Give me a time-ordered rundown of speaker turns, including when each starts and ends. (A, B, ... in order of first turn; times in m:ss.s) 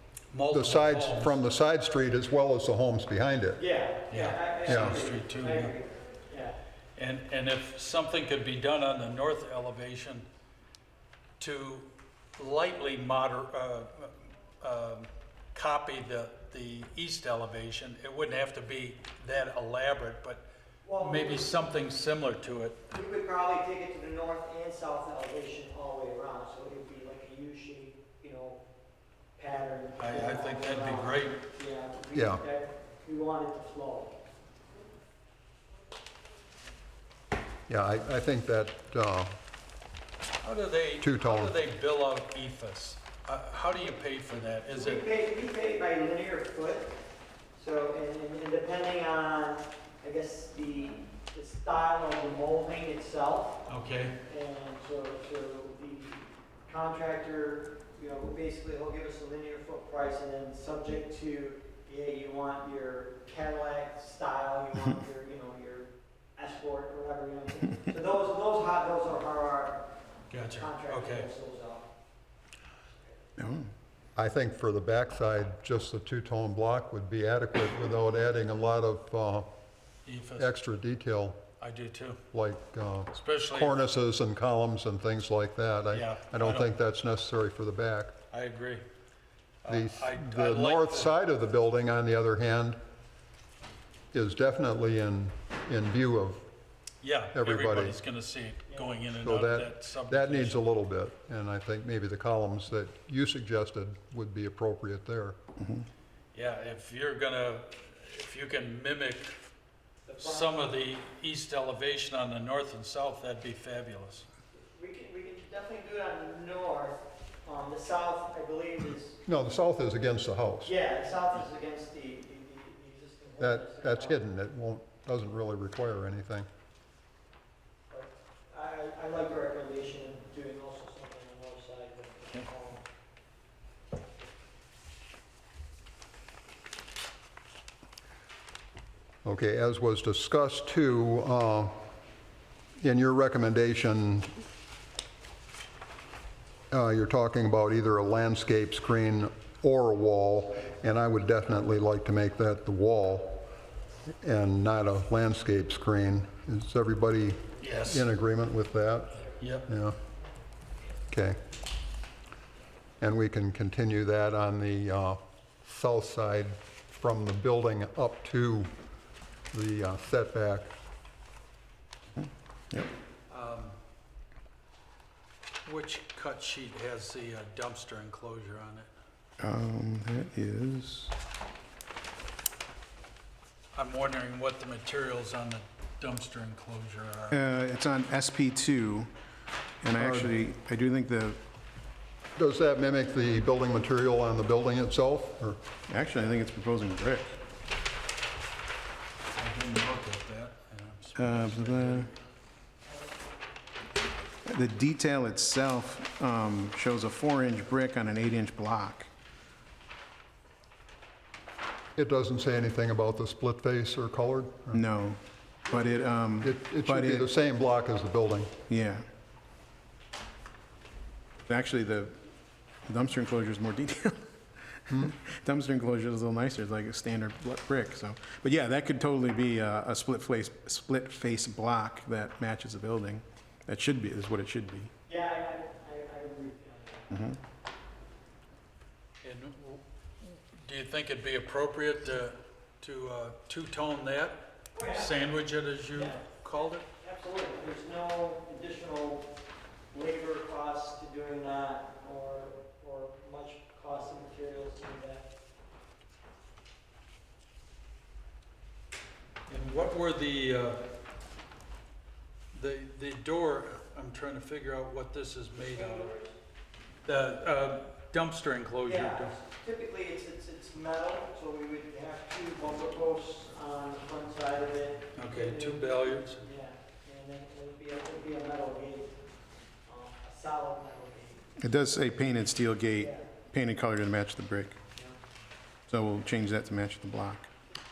0:00.3-0:01.4 A
0:00.5-0:03.6 B
0:03.6-0:06.6 C
0:04.1-0:05.7 A
0:04.7-0:05.0 B
0:07.0-0:10.2 A
0:11.4-0:20.4 A
0:20.8-0:21.5 C
0:21.0-0:22.8 A
0:22.9-0:28.6 C
0:29.4-0:34.1 C
0:30.0-0:31.4 A
0:32.1-0:32.4 B
0:37.7-0:39.3 B
0:40.4-0:45.0 A
0:41.0-0:41.6 B
0:44.7-0:47.0 C
0:47.5-0:53.6 C
0:53.7-0:54.2 A
0:54.2-1:09.9 C
1:10.3-1:11.3 A
1:10.5-1:11.9 C
1:13.4-1:13.7 D
1:14.2-1:19.5 B
1:20.0-1:20.5 A
1:20.4-1:21.4 B
1:21.6-1:22.2 A
1:22.3-1:28.2 B
1:23.1-1:23.8 A
1:25.9-1:26.7 A
1:28.3-1:28.8 A
1:29.6-1:31.1 A
1:29.7-1:32.8 B
1:34.1-1:36.5 B
1:37.0-1:40.7 A
1:37.3-1:38.0 B
1:39.2-1:45.4 B
1:45.6-1:45.8 D
1:46.3-1:49.4 A
1:50.1-1:50.7 C
1:50.2-1:54.3 A
1:54.6-1:59.2 C
1:59.2-2:00.7 B
2:00.6-2:04.2 C
2:03.4-2:06.5 B
2:07.9-2:12.8 C
2:19.2-2:21.8 B
2:22.8-2:24.3 B
2:26.7-2:33.5 B
2:34.2-2:40.0 B
2:37.6-2:38.1 A
2:39.4-2:39.7 A
2:41.1-2:41.4 B
2:43.0-2:48.7 B
2:49.5-2:50.7 B
2:52.2-2:52.9 D
2:53.3-2:53.8 A
2:55.6-2:58.9 A
2:59.4-3:01.1 D
3:03.7-3:07.4 A
3:07.3-3:09.1 D
3:09.8-3:11.4 D
3:10.0-3:10.3 B
3:12.4-3:15.6 B
3:15.9-3:17.4 D
3:19.4-3:22.1 A
3:21.2-3:22.1 D
3:24.4-3:29.1 D
3:32.0-3:34.8 B
3:34.7-3:37.3 D
3:36.4-3:38.5 B
3:38.7-3:39.1 D
3:41.4-3:42.2 D
3:42.9-3:54.9 D
3:55.1-3:57.1 C
3:57.1-3:57.4 D
3:59.2-4:06.8 A
4:04.7-4:05.1 C
4:05.9-4:09.3 C
4:09.9-4:15.3 C
4:19.5-4:20.8 A
4:22.5-4:26.1 A
4:25.6-4:26.3 C
4:27.0-4:29.3 A
4:28.8-4:39.2 C
4:35.1-4:36.4 A
4:39.8-4:41.4 C
4:41.6-4:44.8 D
4:43.0-4:43.3 C
4:45.9-4:47.5 D